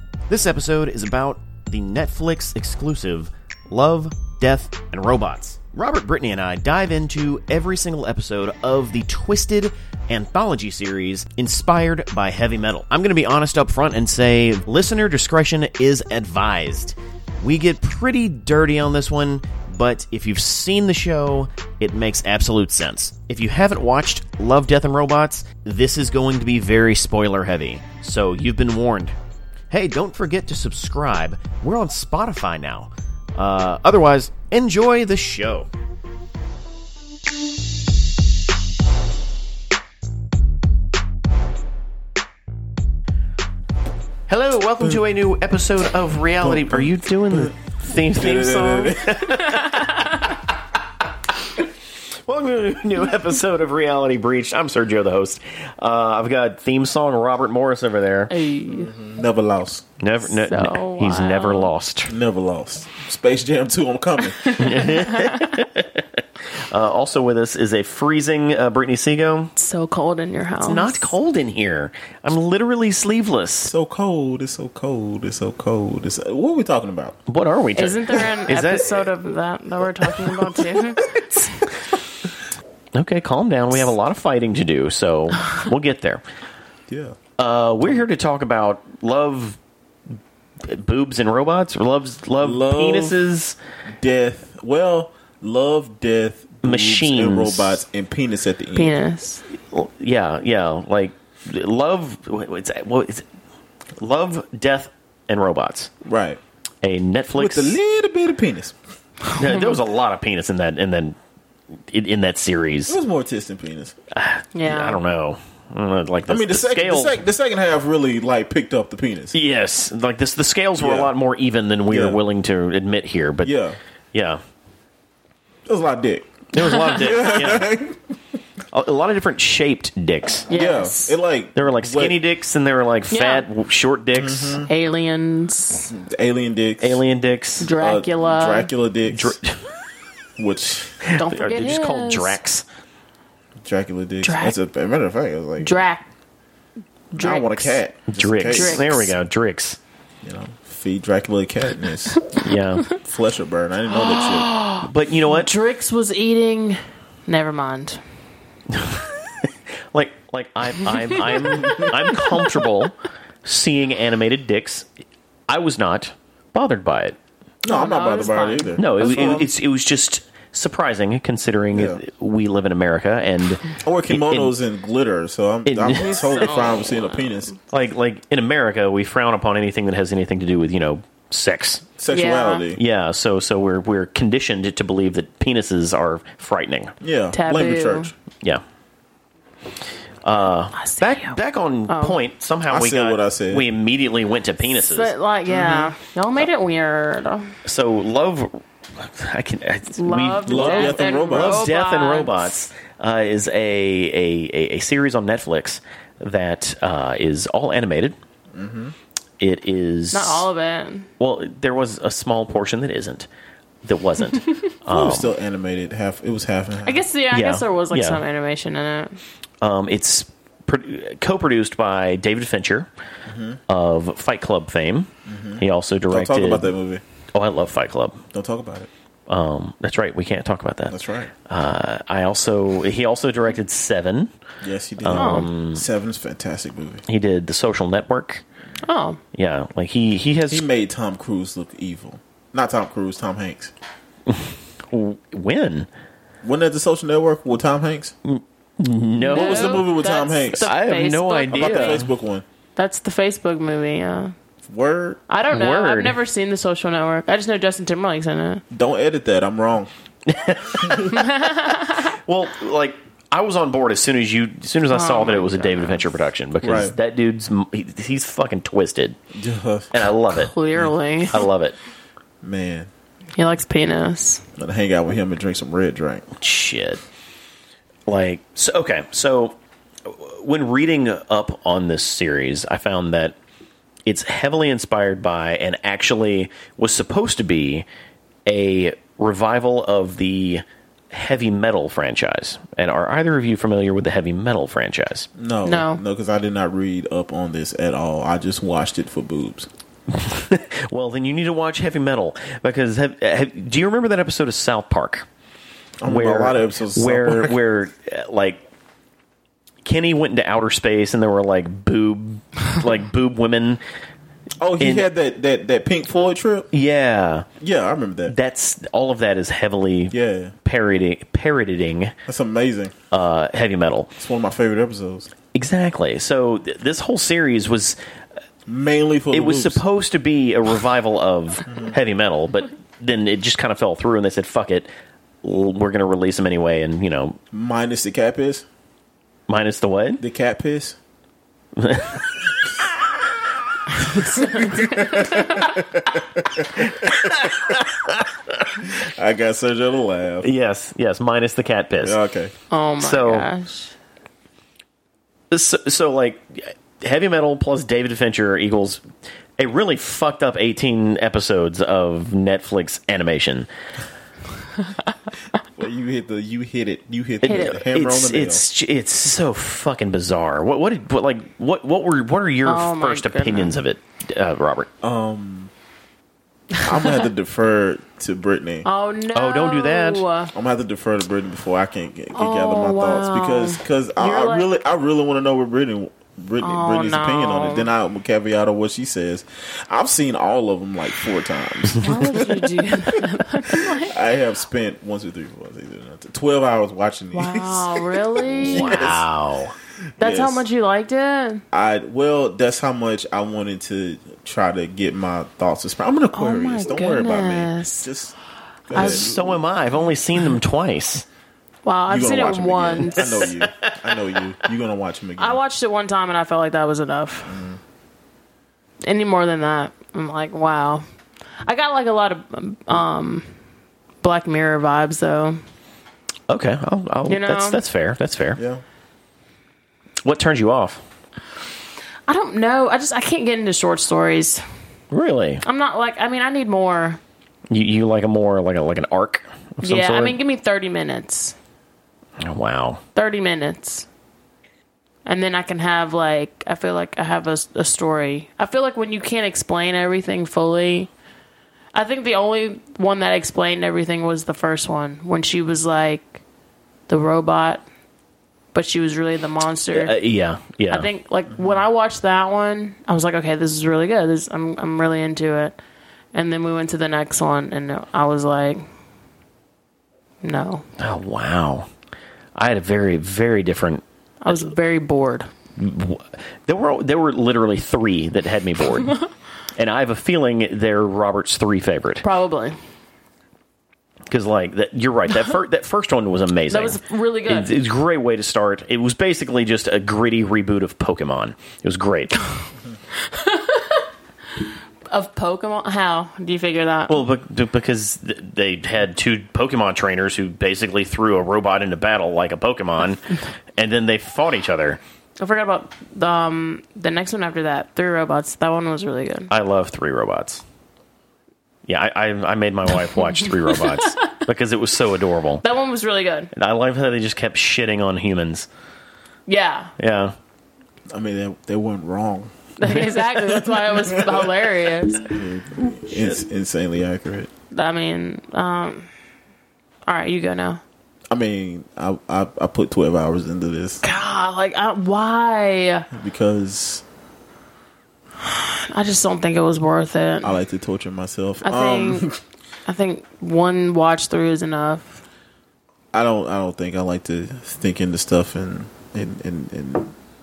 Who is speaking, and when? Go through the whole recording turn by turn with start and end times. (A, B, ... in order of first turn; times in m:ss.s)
0:00.3-0:29.2 A
0:29.7-0:35.7 A
0:44.3-0:50.3 A
0:46.4-0:49.4 B
0:49.5-0:50.1 C
0:52.2-0:58.3 A
0:58.3-0:58.9 C
0:58.7-0:59.8 B
1:00.0-1:02.1 A
1:00.3-1:01.7 C
1:02.1-1:04.8 B
1:04.5-1:09.5 A
1:04.8-1:05.5 C
1:09.6-1:11.1 C
1:10.6-1:13.7 A
1:13.6-1:17.2 B
1:17.3-1:19.1 A
1:17.8-1:21.7 C
1:18.2-1:18.5 B
1:20.0-1:21.2 B
1:22.9-1:26.2 A
1:26.9-1:27.2 B
1:27.4-1:29.6 A
1:30.6-1:33.6 A
1:32.4-1:33.2 B
1:34.0-1:39.0 B
1:36.6-1:37.8 A
1:38.7-1:39.4 C
1:39.6-1:43.2 A
1:44.0-1:45.9 A
1:46.0-1:46.4 B
1:46.8-1:47.8 A
1:47.4-1:48.8 B
1:49.3-1:51.2 A
1:49.3-1:49.8 C
1:51.9-1:53.0 A
1:52.9-1:54.0 B
1:54.1-1:57.2 A
1:54.5-1:55.0 C
1:56.2-1:59.3 B
1:59.3-2:03.5 A
2:00.8-2:01.1 B
2:01.9-2:02.2 B
2:03.4-2:03.8 B
2:04.1-2:04.4 A
2:05.7-2:08.0 B
2:06.5-2:07.7 A
2:08.7-2:10.5 A
2:10.5-2:11.2 C
2:10.5-2:12.2 B
2:11.6-2:14.6 A
2:13.1-2:13.4 C
2:14.1-2:14.7 B
2:14.6-2:15.9 C
2:15.9-2:17.0 B
2:16.8-2:17.7 A
2:17.6-2:18.7 C
2:17.8-2:19.4 B
2:19.1-2:19.6 A
2:20.4-2:21.0 B
2:21.0-2:22.6 A
2:21.2-2:22.4 C
2:23.6-2:25.8 B
2:24.2-2:24.5 C
2:25.6-2:26.0 C
2:27.1-2:27.8 C
2:27.1-2:28.9 B
2:28.1-2:29.8 A
2:28.5-2:29.1 C
2:30.2-2:32.3 B
2:32.1-2:32.9 C
2:32.3-2:32.8 A
2:33.0-2:34.6 B
2:33.9-2:38.0 C
2:34.8-2:35.5 A
2:38.7-2:44.9 A
2:40.9-2:42.6 C
2:41.5-2:42.0 B
2:45.5-2:47.2 A
2:47.6-2:49.5 B
2:47.7-2:49.4 C
2:48.8-2:54.5 A
2:51.7-2:52.0 B
2:53.8-2:57.5 B
2:55.6-2:56.4 A
2:56.0-2:57.5 C
2:57.7-3:01.8 A
3:02.0-3:02.8 B
3:02.1-3:02.6 C
3:02.7-3:06.9 A
3:07.0-3:08.1 B
3:07.3-3:08.1 C
3:10.2-3:15.1 A
3:10.8-3:11.4 C
3:11.9-3:12.2 C
3:12.7-3:13.7 B
3:14.7-3:17.5 C
3:15.5-3:15.9 B
3:17.6-3:28.2 A
3:20.0-3:22.4 C
3:20.4-3:21.7 B
3:28.5-3:28.9 B
3:29.4-3:30.5 A
3:30.1-3:31.1 C
3:31.2-3:33.3 A
3:33.8-3:35.3 A
3:34.9-3:37.0 B
3:36.8-3:39.2 C
3:37.3-3:38.2 A
3:39.6-3:42.9 A
3:43.2-3:43.6 B
3:43.7-3:46.7 A
3:45.2-3:47.0 B
3:47.3-3:48.2 A
3:48.3-3:48.9 B
3:49.3-3:54.3 A
3:50.9-3:51.3 B
3:54.6-3:57.0 B
3:55.0-3:55.8 A
3:55.1-3:55.5 C
3:57.1-3:58.4 A
3:58.8-3:59.2 C
3:59.3-4:00.6 A
4:00.5-4:03.7 B
4:04.3-4:05.9 A
4:06.4-4:08.1 B
4:08.2-4:09.9 A
4:09.2-4:12.0 C
4:09.3-4:10.7 B
4:10.6-4:12.1 A
4:11.5-4:12.4 B
4:12.8-4:14.3 C
4:14.6-4:15.2 B
4:15.3-4:18.6 C
4:15.5-4:16.2 A
4:18.7-4:19.9 B
4:20.3-4:21.2 A
4:20.8-4:21.1 B
4:21.1-4:22.1 C
4:21.9-4:29.2 A
4:24.9-4:26.1 C
4:26.6-4:27.0 B
4:29.3-4:29.9 B
4:29.9-4:30.5 A
4:30.4-4:31.5 C
4:31.3-4:31.8 A
4:32.4-4:32.9 B
4:33.4-4:34.4 C
4:34.6-4:36.2 B
4:36.4-4:37.0 A
4:38.1-4:43.4 A
4:44.0-4:47.8 A
4:48.4-4:55.3 A
4:55.4-4:59.7 B
4:55.6-4:56.0 C
5:00.1-5:05.3 A
5:06.0-5:07.6 B
5:06.0-5:08.6 A
5:09.8-5:13.8 A
5:14.6-5:16.7 B
5:14.8-5:15.1 A
5:16.7-5:17.5 A
5:17.6-5:18.4 B
5:18.3-5:22.1 A
5:20.1-5:20.5 B
5:22.3-5:22.9 B
5:23.1-5:24.1 A
5:24.2-5:25.3 B
5:25.5-5:28.0 A
5:28.6-5:29.8 B
5:29.3-5:34.9 A
5:31.7-5:32.0 B
5:35.4-5:37.4 A
5:37.5-5:38.6 B
5:39.5-5:40.2 A
5:40.2-5:41.0 B
5:41.8-5:42.3 A
5:44.0-5:48.1 B
5:44.1-5:45.5 C
5:46.7-5:48.7 A
5:48.8-5:50.5 B
5:50.4-5:52.2 A
5:52.0-5:52.5 B
5:52.7-5:53.9 C
5:53.0-5:53.5 A
5:55.5-5:59.0 A
5:59.6-6:03.7 A
6:05.8-6:08.6 B
6:07.4-6:14.9 A
6:07.4-6:07.8 C
6:12.6-6:13.8 C
6:15.0-6:15.7 B
6:16.8-6:17.2 C
6:16.8-6:18.9 B
6:18.8-6:20.5 C
6:19.3-6:20.2 A
6:20.5-6:39.2 B
6:22.3-6:24.7 C
6:26.6-6:27.9 C
6:32.0-6:34.1 C
6:37.3-6:39.1 C
6:38.6-6:39.8 A
6:40.2-6:40.6 B
6:40.2-6:41.6 C
6:41.7-6:48.4 B
6:46.3-6:48.1 C
6:48.9-6:49.4 B
6:48.9-6:49.5 C
6:48.9-6:51.2 A
6:51.8-6:53.5 C
6:52.1-6:55.6 B
6:53.2-6:54.4 A
6:55.4-6:57.6 C
6:57.4-6:57.8 B
6:59.0-7:01.0 C
7:01.6-7:03.5 C
7:04.2-7:05.6 C
7:06.5-7:08.6 A
7:07.3-7:07.8 C
7:08.6-7:08.8 B
7:10.2-7:11.0 A
7:12.3-7:14.6 C
7:15.1-7:15.6 A
7:15.6-7:17.2 C
7:17.7-7:20.4 A
7:19.8-7:21.6 C
7:22.4-7:23.0 A
7:23.2-7:24.0 C
7:25.2-7:31.1 C
7:31.9-7:36.4 C
7:37.1-7:37.8 C
7:38.7-7:40.1 C
7:39.9-7:41.1 A
7:40.9-7:45.8 C
7:41.5-7:41.8 B
7:46.3-7:48.8 C
7:50.4-7:50.8 C
7:51.0-7:51.9 A
7:52.6-7:54.0 A
7:54.4-7:55.5 C
7:55.8-7:59.2 A
7:59.8-8:02.2 A
8:02.2-8:02.8 C
8:04.3-8:12.4 A
8:06.7-8:07.7 C
8:13.2-8:14.0 C
8:14.6-8:17.2 C
8:17.1-8:25.0 A
8:25.4-8:29.5 C
8:29.5-8:30.6 A
8:31.9-8:35.6 A
8:33.3-8:34.1 C
8:35.6-8:36.5 C
8:36.5-8:38.7 A
8:39.5-8:39.9 C
8:40.0-8:40.3 A
8:41.1-8:47.5 B
8:42.8-8:45.3 C
8:47.7-8:49.1 C
8:50.1-8:50.8 C
8:51.3-8:54.0 B
8:54.0-8:56.1 C
8:56.1-8:57.0 B
8:58.4-9:00.6 C
9:00.4-9:02.4 B
9:01.6-9:02.3 C
9:02.8-9:05.2 C
9:06.1-9:10.1 B